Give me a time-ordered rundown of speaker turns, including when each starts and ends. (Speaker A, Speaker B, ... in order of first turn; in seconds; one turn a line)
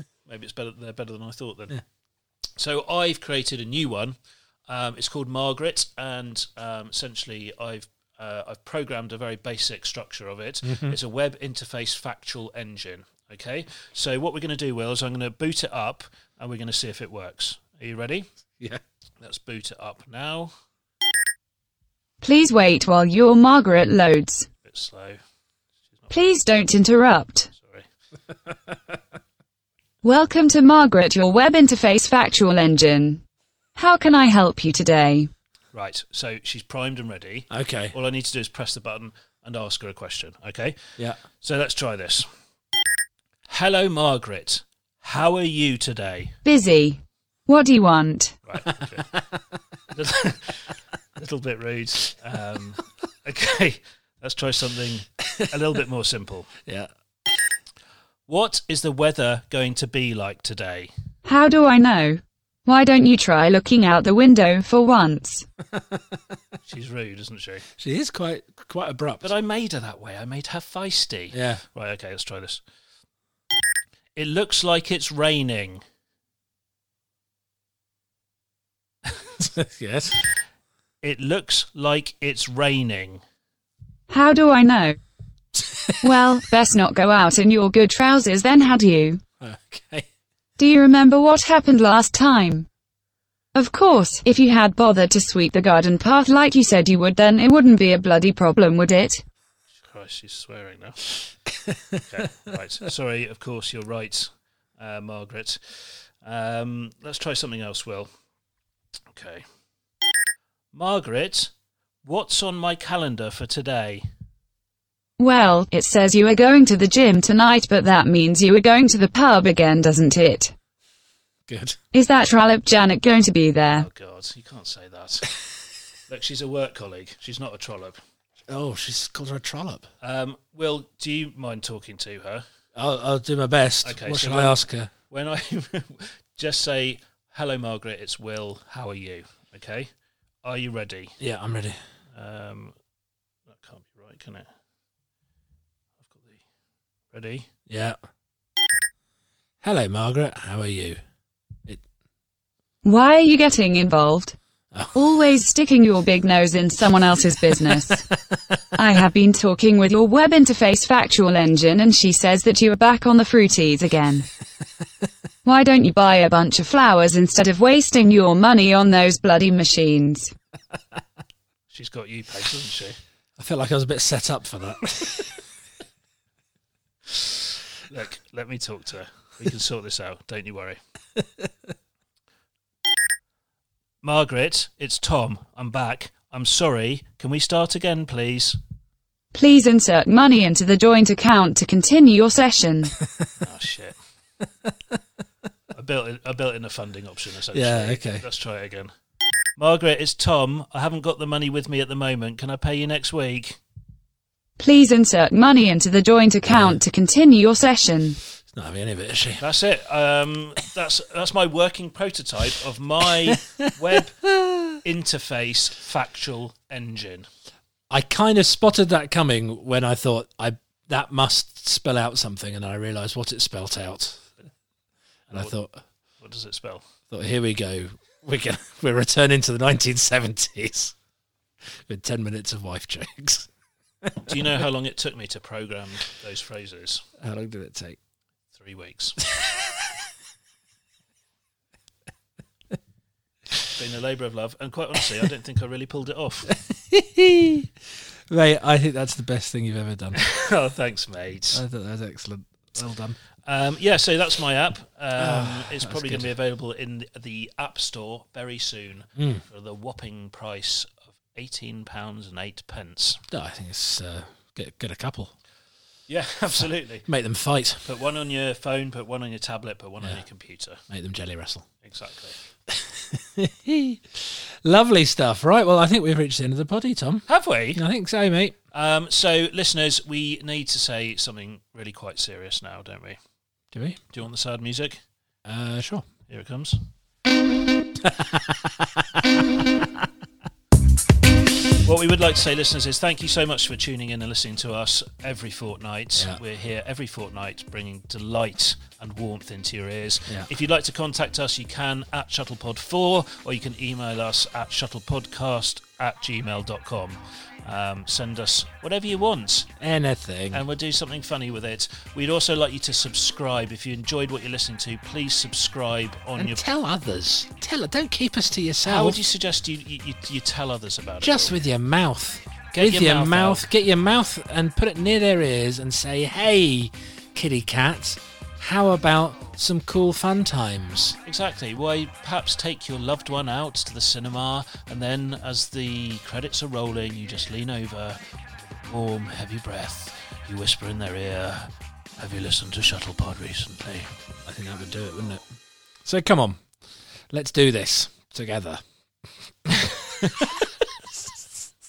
Speaker A: 0.2-1.8
Speaker A: 2.6-4.2
Speaker A: 4.7-18.3
Speaker B: 10.6-11.0
Speaker A: 19.2-20.5
Speaker C: 22.2-24.5
Speaker A: 24.6-25.2
Speaker C: 26.1-27.5
Speaker A: 27.5-27.9
Speaker C: 30.0-33.2
Speaker C: 33.8-35.3
Speaker A: 35.7-42.3
Speaker B: 37.5-37.9
Speaker A: 43.5-46.4
Speaker C: 46.4-48.4
Speaker A: 48.5-49.1
Speaker B: 48.8-49.4
Speaker A: 49.9-56.5
Speaker B: 56.6-57.4
Speaker A: 58.3-60.9
Speaker C: 61.2-65.5
Speaker B: 65.7-66.2
Speaker A: 66.7-67.7
Speaker B: 67.8-69.3
Speaker A: 69.2-72.6
Speaker B: 71.3-71.6
Speaker A: 74.2-75.8
Speaker B: 79.4-80.2
Speaker A: 81.0-83.2
Speaker C: 84.1-85.0
Speaker B: 85.5-86.0
Speaker C: 86.0-89.2
Speaker B: 89.4-90.1
Speaker C: 90.6-92.7
Speaker C: 93.5-99.2
Speaker A: 99.8-101.1
Speaker B: 101.7-102.0
Speaker A: 102.1-108.1
Speaker A: 109.1-109.4
Speaker A: 110.7-111.5
Speaker A: 112.0-114.0
Speaker C: 115.2-120.5
Speaker B: 121.5-121.8
Speaker C: 121.9-123.9
Speaker A: 123.7-125.3
Speaker A: 126.1-128.0
Speaker B: 128.5-129.9
Speaker A: 130.0-132.4
Speaker B: 132.7-134.9
Speaker A: 133.8-139.9
Speaker A: 140.4-141.2
Speaker B: 141.2-141.8
Speaker A: 142.1-142.7
Speaker A: 143.5-144.5
Speaker A: 146.0-146.4
Speaker A: 147.1-147.5
Speaker B: 147.7-148.0
Speaker B: 149.6-151.0
Speaker C: 152.8-154.3
Speaker C: 154.9-158.1
Speaker C: 158.7-164.3
Speaker C: 165.4-170.3
Speaker A: 171.7-173.0
Speaker B: 173.4-175.4
Speaker A: 177.9-180.8
Speaker A: 184.0-188.6
Speaker C: 189.3-192.9
Speaker A: 193.4-193.9
Speaker A: 195.7-198.9
Speaker B: 197.5-198.2
Speaker A: 199.6-203.6
Speaker C: 204.6-208.2
Speaker B: 206.4-206.8
Speaker B: 208.5-209.4
Speaker A: 209.4-214.2
Speaker B: 213.3-213.7
Speaker B: 214.2-214.8
Speaker A: 214.8-217.3
Speaker B: 217.9-224.2
Speaker B: 225.3-225.8
Speaker A: 226.2-226.8
Speaker B: 227.1-230.9
Speaker B: 231.8-233.5
Speaker B: 234.0-234.3
Speaker A: 234.2-237.0
Speaker B: 237.2-238.0
Speaker A: 238.5-239.2
Speaker B: 239.3-239.9
Speaker A: 243.7-246.5
Speaker B: 246.5-247.7
Speaker B: 248.3-250.2
Speaker A: 250.1-251.6
Speaker B: 251.5-253.2
Speaker A: 253.4-263.2
Speaker B: 255.2-256.3
Speaker B: 259.2-259.4
Speaker B: 263.3-265.3
Speaker A: 266.1-267.0
Speaker B: 266.6-267.9
Speaker A: 267.8-270.8
Speaker B: 270.9-271.7
Speaker A: 271.8-272.4
Speaker B: 272.7-278.6
Speaker A: 277.3-277.8
Speaker A: 278.7-283.2
Speaker B: 283.7-284.0
Speaker A: 284.1-285.0
Speaker B: 285.4-286.1
Speaker A: 286.3-286.8
Speaker B: 288.0-290.0
Speaker A: 291.8-309.7
Speaker B: 309.8-310.6
Speaker A: 310.5-316.6
Speaker B: 316.4-319.2
Speaker A: 318.8-321.6
Speaker B: 321.2-331.2
Speaker A: 322.7-323.6
Speaker A: 331.2-338.2
Speaker A: 338.7-344.1
Speaker B: 344.4-345.4
Speaker B: 346.0-346.6
Speaker B: 347.3-348.8
Speaker B: 349.6-351.7